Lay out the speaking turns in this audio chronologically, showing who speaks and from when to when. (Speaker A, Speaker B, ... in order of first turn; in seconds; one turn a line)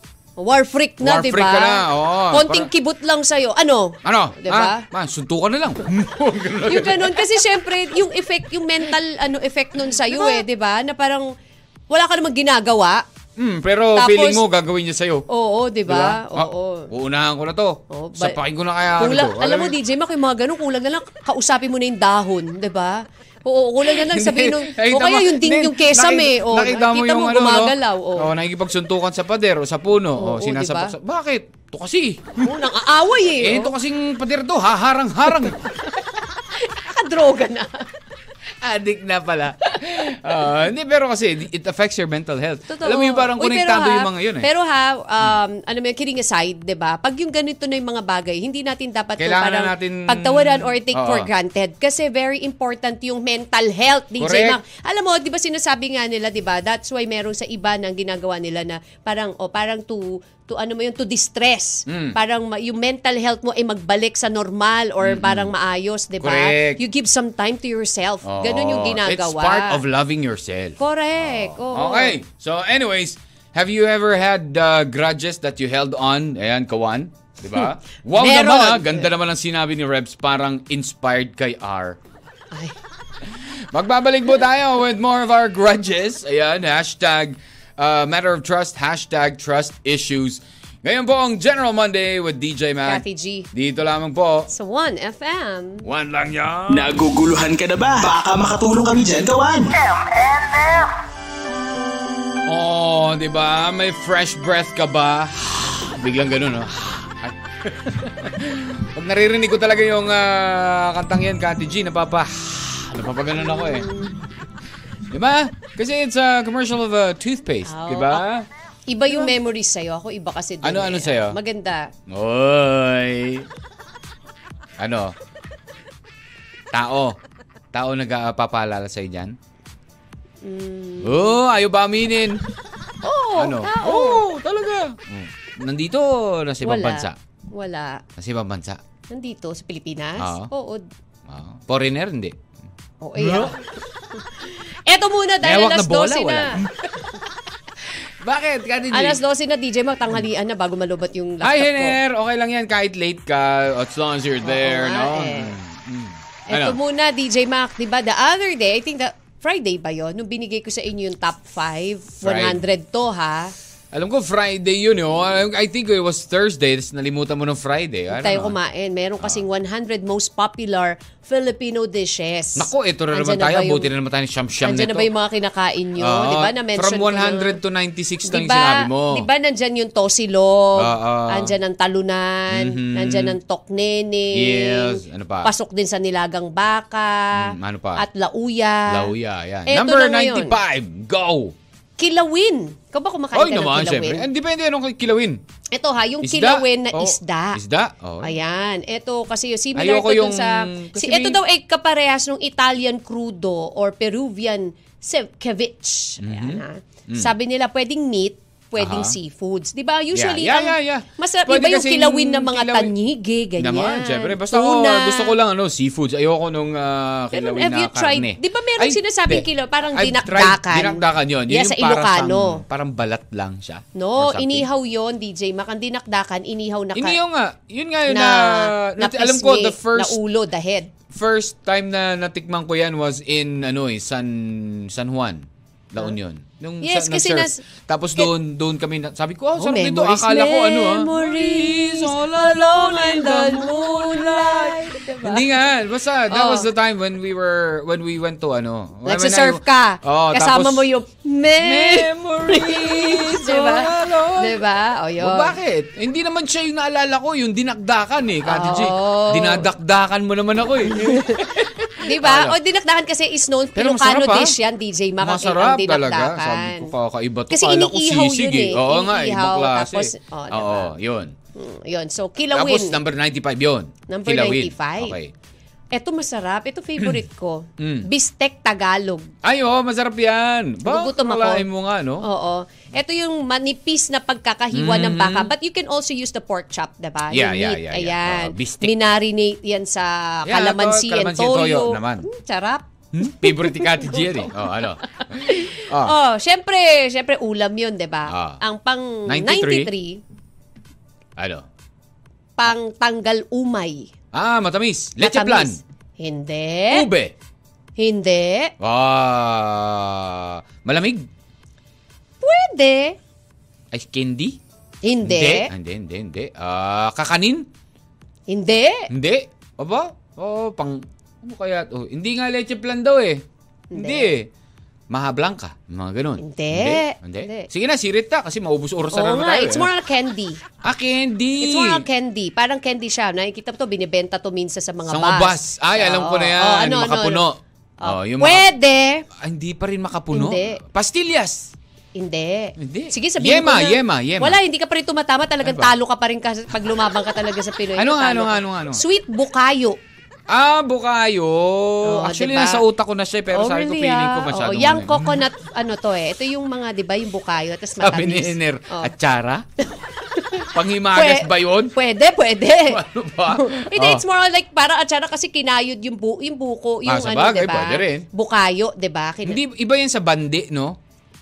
Speaker A: 0.4-4.8
Speaker B: 1.0-2.7
Speaker B: 4.0-7.3
Speaker A: 6.6-11.3
Speaker B: 10.1-10.4
Speaker A: 11.9-13.0
Speaker B: 13.4-15.2
Speaker A: 13.9-14.4
Speaker A: 15.3-16.9
Speaker B: 15.9-19.8
Speaker A: 17.9-18.4
Speaker A: 19.0-28.3
Speaker B: 23.8-32.5
Speaker A: 30.1-30.9
Speaker A: 32.4-33.7
Speaker B: 33.4-35.7
Speaker A: 36.5-37.9
Speaker B: 38.6-44.5
Speaker A: 42.7-69.8
Speaker B: 49.2-51.3
Speaker B: 54.2-54.6
Speaker B: 61.9-62.2
Speaker B: 65.0-65.5
Speaker B: 66.2-66.8
Speaker B: 68.2-82.0
Speaker A: 70.8-72.2
Speaker A: 78.1-79.1
Speaker B: 83.3-94.5
Speaker A: 92.9-93.5
Speaker A: 94.5-95.9
Speaker B: 95.8-97.0
Speaker C: 96.7-100.9
Speaker B: 102.5-113.9
Speaker A: 113.4-114.2
Speaker B: 115.1-118.5
Speaker A: 117.7-118.2
Speaker A: 118.9-121.9
Speaker B: 120.6-121.4
Speaker B: 122.1-123.5
Speaker B: 124.8-125.1
Speaker B: 126.7-127.2
Speaker B: 127.7-129.4
Speaker A: 130.4-131.4
Speaker B: 131.0-132.4
Speaker A: 133.0-134.2
Speaker B: 133.4-137.2
Speaker A: 136.6-138.0
Speaker B: 138.2-138.8
Speaker A: 139.1-140.8
Speaker B: 140.2-140.5
Speaker B: 141.3-142.4
Speaker A: 143.0-146.6
Speaker B: 143.2-143.5
Speaker B: 145.4-147.1
Speaker B: 148.2-149.2
Speaker A: 148.9-152.0
Speaker B: 151.4-156.8
Speaker A: 154.4-155.6
Speaker A: 156.5-163.5
Speaker B: 162.2-162.6
Speaker B: 163.9-168.6
Speaker A: 168.1-173.9
Speaker B: 172.6-175.1
Speaker A: 174.6-177.6
Speaker B: 176.0-179.3
Speaker A: 178.2-189.1
Speaker B: 180.8-181.6
Speaker B: 182.5-183.4
Speaker B: 184.3-185.5
Speaker B: 187.3-188.0
Speaker B: 188.9-191.6
Speaker A: 189.7-190.6
Speaker A: 192.0-194.3
Speaker B: 193.3-195.4
Speaker A: 195.7-197.6
Speaker B: 196.2-198.4
Speaker A: 198.2-215.4
Speaker B: 199.8-201.4
Speaker B: 206.2-207.3
Speaker B: 208.8-209.1
Speaker B: 210.1-212.9
Speaker B: 213.6-224.7
Speaker A: 217.3-222.6
Speaker A: 224.0-227.2
Speaker B: 227.0-230.2
Speaker A: 228.1-230.9
Speaker B: 231.1-250.9
Speaker A: 236.8-237.6
Speaker A: 239.6-245.5
Speaker A: 246.3-246.7
Speaker A: 249.1-255.6
Speaker B: 251.6-254.6
Speaker B: 255.2-262.6
Speaker A: 258.4-259.7
Speaker A: 260.9-266.9
Speaker B: 263.8-264.6
Speaker B: 265.2-271.4
Speaker A: 267.5-270.9
Speaker A: 271.6-273.0
Speaker B: 272.5-275.3
Speaker A: 274.1-275.1
Speaker A: 275.9-279.3
Speaker B: 277.8-278.1
Speaker B: 279.4-282.3
Speaker A: 280.9-281.6
Speaker A: 282.2-300.2
Speaker B: 284.7-285.5
Speaker B: 287.3-289.0
Speaker B: 290.4-292.3
Speaker B: 293.1-296.1
Speaker B: 298.3-298.6
Speaker B: 299.3-299.9
Speaker B: 301.4-301.7
Speaker A: 302.6-304.1
Speaker B: 304.3-305.8
Speaker A: 305.2-307.1
Speaker B: 306.9-307.3
Speaker A: 308.0-308.7
Speaker B: 308.8-311.3
Speaker A: 312.4-313.2
Speaker B: 313.9-314.6
Speaker A: 315.0-315.7
Speaker B: 315.2-317.6
Speaker A: 318.5-319.1
Speaker B: 319.1-324.5
Speaker A: 323.9-324.3
Speaker B: 325.1-329.9
Speaker A: 326.4-327.7
Speaker A: 329.1-330.6
Speaker B: 330.8-332.0
Speaker A: 331.6-337.4
Speaker B: 335.1-338.7
Speaker A: 338.0-339.2
Speaker B: 339.4-341.7
Speaker A: 340.3-340.8
Speaker A: 342.1-350.0
Speaker B: 342.8-344.6
Speaker B: 345.6-345.9
Speaker B: 348.0-349.0
Speaker B: 350.5-355.4
Speaker A: 352.0-352.8
Speaker A: 353.5-359.1
Speaker B: 358.0-359.6
Speaker A: 360.3-369.6
Speaker B: 360.7-362.0
Speaker B: 362.9-364.2
Speaker B: 367.1-368.3
Speaker B: 369.4-371.0